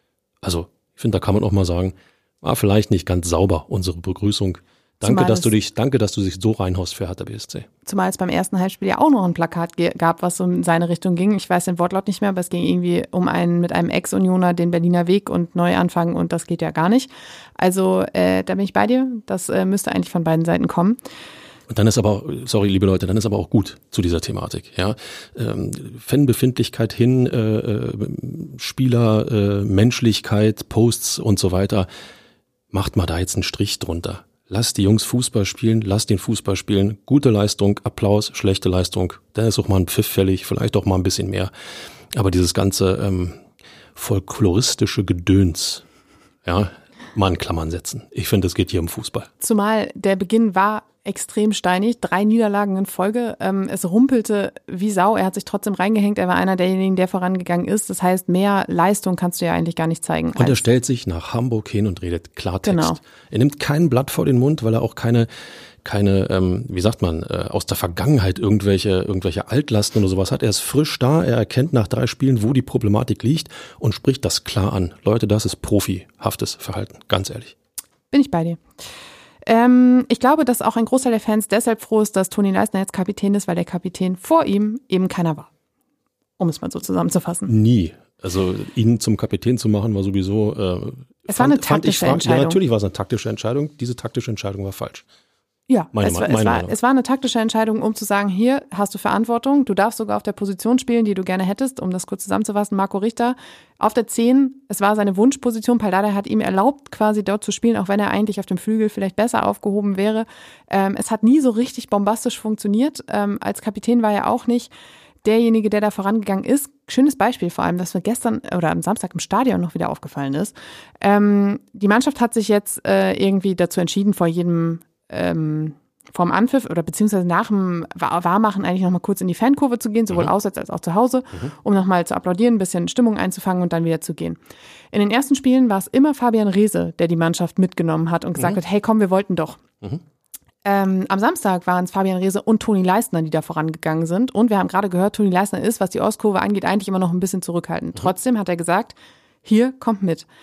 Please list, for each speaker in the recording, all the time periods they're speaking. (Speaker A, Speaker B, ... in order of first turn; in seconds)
Speaker A: 0.4-7.7, 21.7-31.9, 32.7-41.5, 42.1-43.4, 43.9-45.8, 46.4-49.3, 60.4-65.3, 65.8-77.5, 87.5-95.0, 95.9-96.7
Speaker B: 5.0-5.5, 7.8-21.0, 49.4-60.6, 62.6-63.0, 78.1-78.6, 79.5-85.5, 86.4-87.5, 91.3-92.6, 95.7-114.7, 115.2-134.4, 134.9-139.6, 140.6-150.2